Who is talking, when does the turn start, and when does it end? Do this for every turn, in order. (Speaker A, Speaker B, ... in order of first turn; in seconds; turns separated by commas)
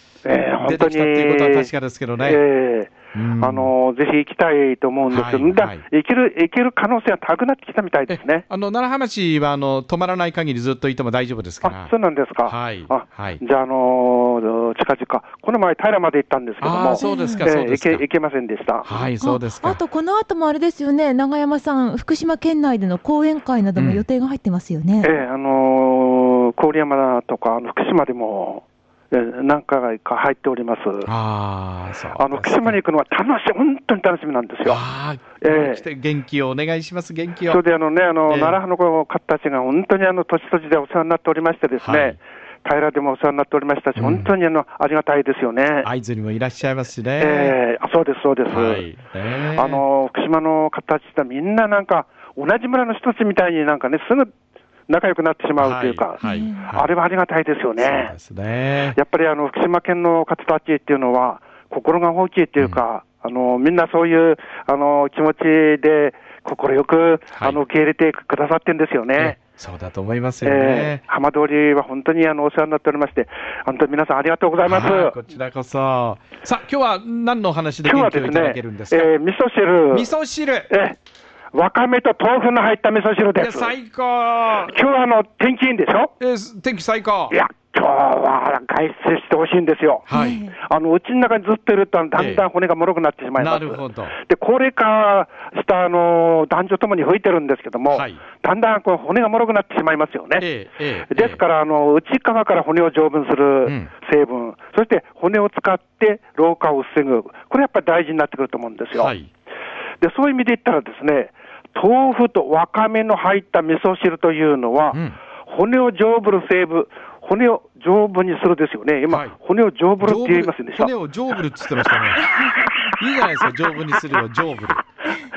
Speaker A: 0.2-8.4, Speaker B: 0.6-2.4, Speaker B: 3.1-3.7, Speaker B: 5.1-5.8, Speaker B: 8.1-11.9, Speaker A: 11.6-18.9, Speaker B: 12.4-13.4, Speaker B: 16.6-18.0, Speaker C: 17.0-17.4, Speaker B: 18.8-19.8, Speaker C: 19.2-25.1, Speaker B: 23.8-24.0, Speaker A: 25.0-31.1, Speaker B: 31.1-32.8, Speaker A: 32.1-34.8, Speaker B: 34.6-37.6, Speaker A: 35.4-35.8, Speaker A: 37.5-45.9, Speaker B: 38.3-38.6, Speaker B: 41.8-42.1, Speaker B: 44.0-44.3, Speaker B: 45.8-47.6, Speaker A: 47.2-48.9, Speaker B: 48.5-49.8, Speaker A: 49.5-54.3, Speaker A: 54.9-58.1, Speaker B: 55.6-56.9, Speaker C: 56.2-56.6, Speaker B: 57.8-59.0, Speaker A: 58.9-69.4, Speaker B: 69.2-71.0, Speaker A: 70.4-75.2, Speaker B: 74.6-79.1, Speaker A: 77.8-80.1, Speaker B: 79.9-80.7, Speaker A: 80.7-81.0, Speaker A: 81.5-83.7, Speaker B: 83.4-84.8, Speaker A: 84.7-86.1, Speaker B: 86.2-87.3, Speaker A: 87.3-100.5, Speaker B: 90.1-90.4, Speaker C: 90.1-90.5, Speaker B: 92.1-92.5, Speaker B: 93.4-94.1, Speaker B: 97.9-98.2, Speaker B: 100.4-101.4, Speaker A: 101.1-109.1, Speaker B: 103.6-103.9, Speaker B: 109.0-109.3, Speaker A: 110.0-120.9, Speaker B: 114.9-115.2, Speaker B: 119.1-119.3, Speaker B: 120.0-122.3, Speaker B: 122.9-124.8